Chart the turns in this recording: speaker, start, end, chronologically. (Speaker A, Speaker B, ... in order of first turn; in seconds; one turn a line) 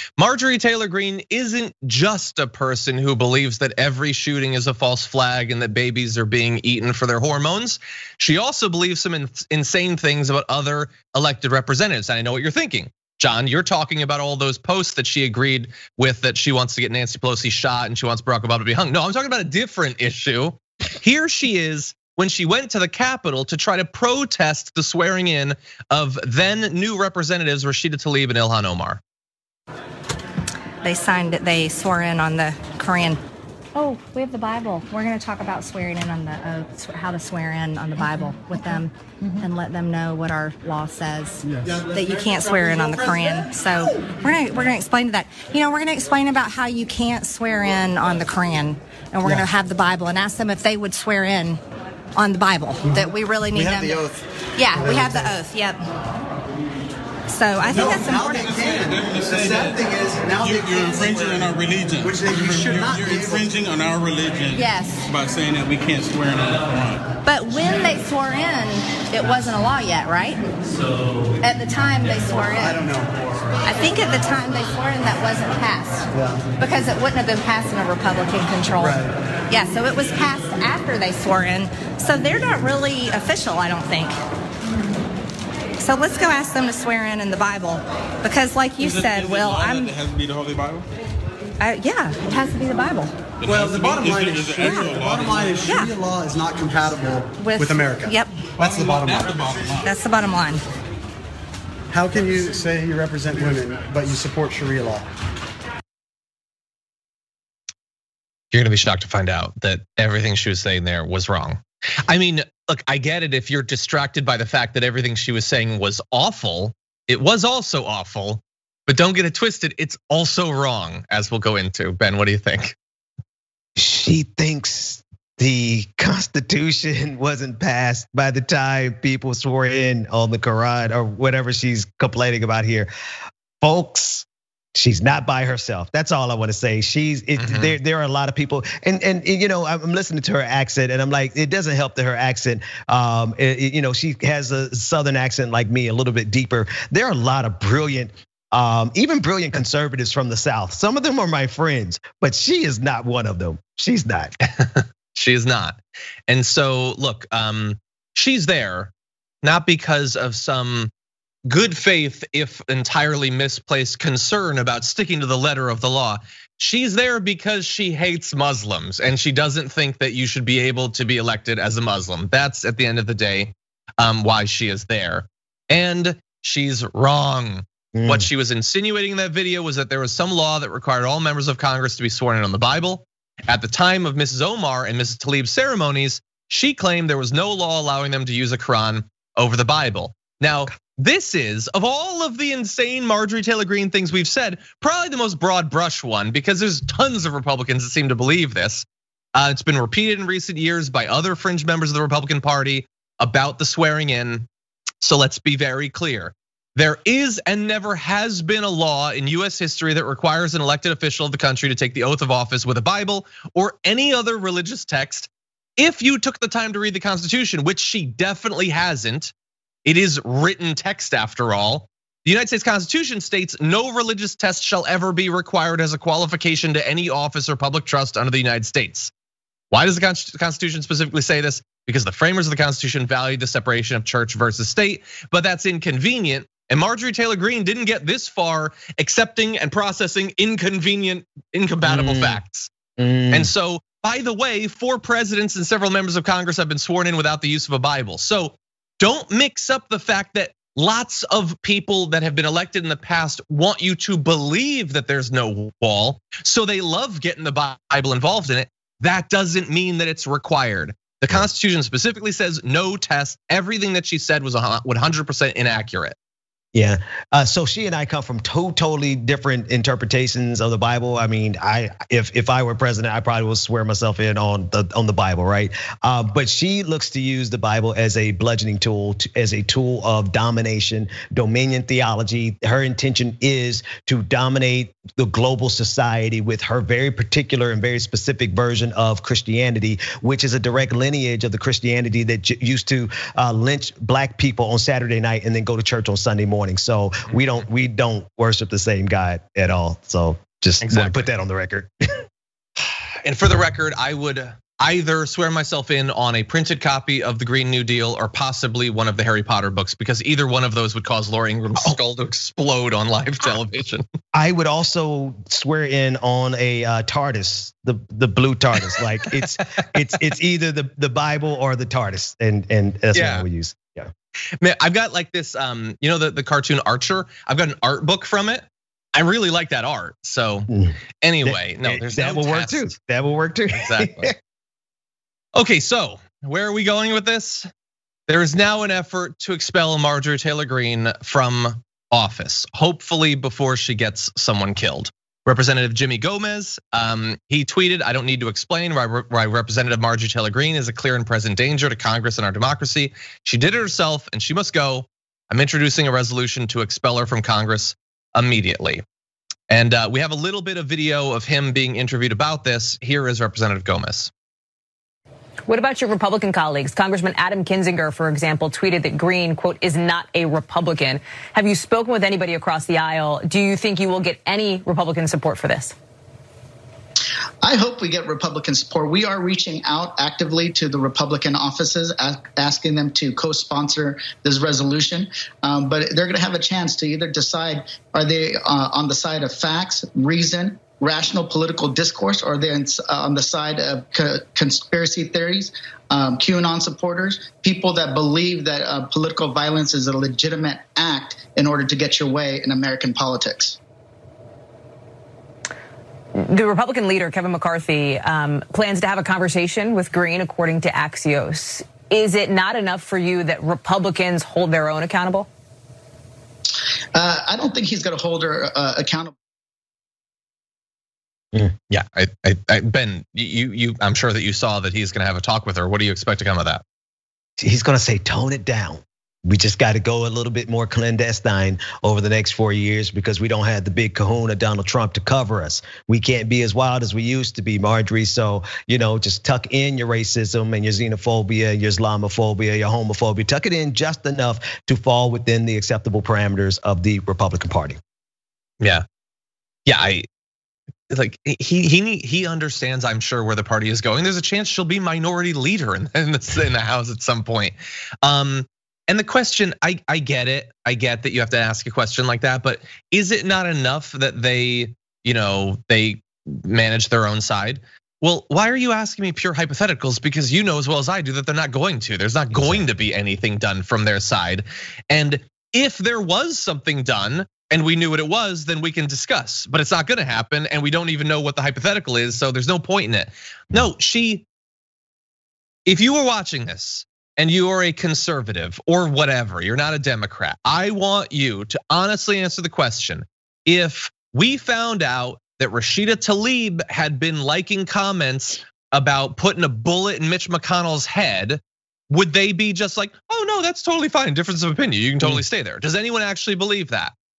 Speaker A: 0.2-29.0
Speaker B: 30.8-33.2
Speaker B: 33.7-51.6
Speaker B: 52.1-54.0
Speaker C: 53.5-54.2
Speaker B: 54.6-55.9
Speaker C: 54.7-55.3
Speaker B: 57.3-58.7
Speaker C: 57.7-63.5
Speaker D: 57.7-67.0
Speaker B: 64.5-65.0
Speaker B: 67.2-70.5
Speaker B: 71.4-72.8
Speaker C: 72.6-73.1
Speaker B: 73.6-84.2
Speaker C: 76.1-76.4
Speaker C: 78.8-79.1
Speaker B: 85.8-89.9
Speaker D: 88.8-90.8
Speaker B: 91.6-93.1
Speaker D: 93.4-95.7
Speaker C: 93.4-99.5
Speaker B: 94.6-95.0
Speaker B: 95.6-95.9
Speaker B: 97.4-98.4
Speaker D: 98.6-99.9
Speaker B: 99.8-100.6
Speaker C: 101.9-105.1
Speaker A: 108.5-122.8
Speaker E: 123.8-132.9
Speaker E: 133.6-154.3
Speaker A: 137.4-137.8
Speaker A: 154.5-158.9
Speaker A: 159.4-160.9
Speaker A: 161.5-204.4
Speaker E: 177.9-178.3
Speaker A: 205.0-219.3
Speaker A: 219.8-229.1
Speaker A: 229.7-242.7
Speaker E: 241.8-242.4
Speaker E: 243.0-243.5
Speaker A: 243.3-266.1
Speaker E: 266.7-301.9
Speaker A: 297.3-297.6
Speaker A: 300.8-301.2
Speaker A: 303.2-314.0
Speaker E: 314.3-324.1
Speaker A: 323.1-323.4
Speaker A: 324.6-330.7
Speaker E: 330.7-334.3
Speaker A: 331.2-332.9
Speaker A: 333.7-334.3
Speaker A: 335.5-337.7
Speaker A: 338.3-359.0
Speaker A: 359.7-364.3
Speaker F: 365.6-375.9
Speaker G: 377.6-403.8
Speaker F: 406.4-415.5
Speaker G: 417.1-419.3
Speaker A: 421.9-426.8
Speaker E: 427.6-448.0
Speaker A: 449.9-450.3
Speaker A: 451.1-484.4
Speaker E: 472.5-472.9
Speaker A: 485.9-507.1